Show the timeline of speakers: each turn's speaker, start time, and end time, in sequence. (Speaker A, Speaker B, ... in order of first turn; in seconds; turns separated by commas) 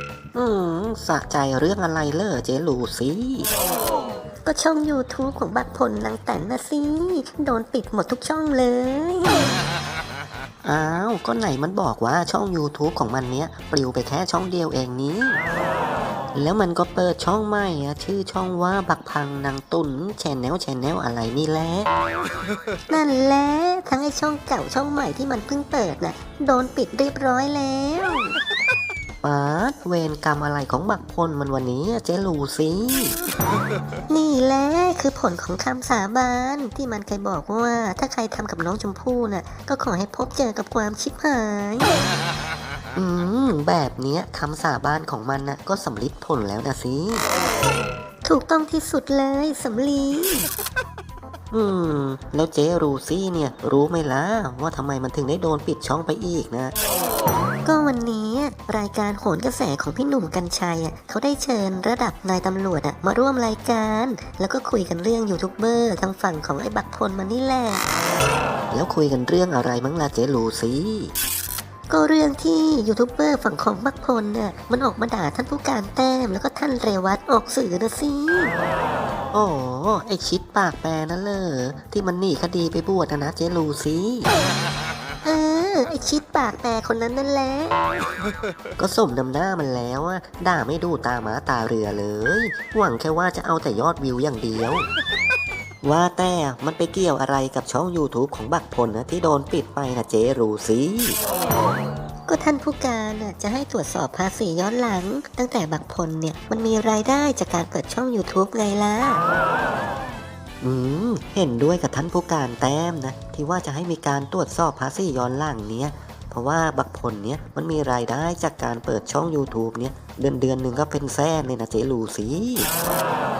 Speaker A: 0.3-3.5, Speaker B: 4.5-9.6, Speaker A: 10.6-15.4, Speaker A: 16.3-21.9, Speaker B: 22.9-28.4, Speaker A: 29.2-33.2, Speaker B: 34.1-42.0, Speaker A: 43.0-47.2, Speaker B: 48.2-50.5, Speaker A: 51.5-56.7, Speaker B: 57.6-67.8, Speaker A: 68.7-71.1, Speaker B: 71.9-78.5, Speaker A: 79.3-84.3, Speaker B: 85.2-87.8, Speaker A: 88.8-94.9, Speaker A: 95.8-101.2, Speaker B: 102.3-109.2, Speaker A: 110.6-122.7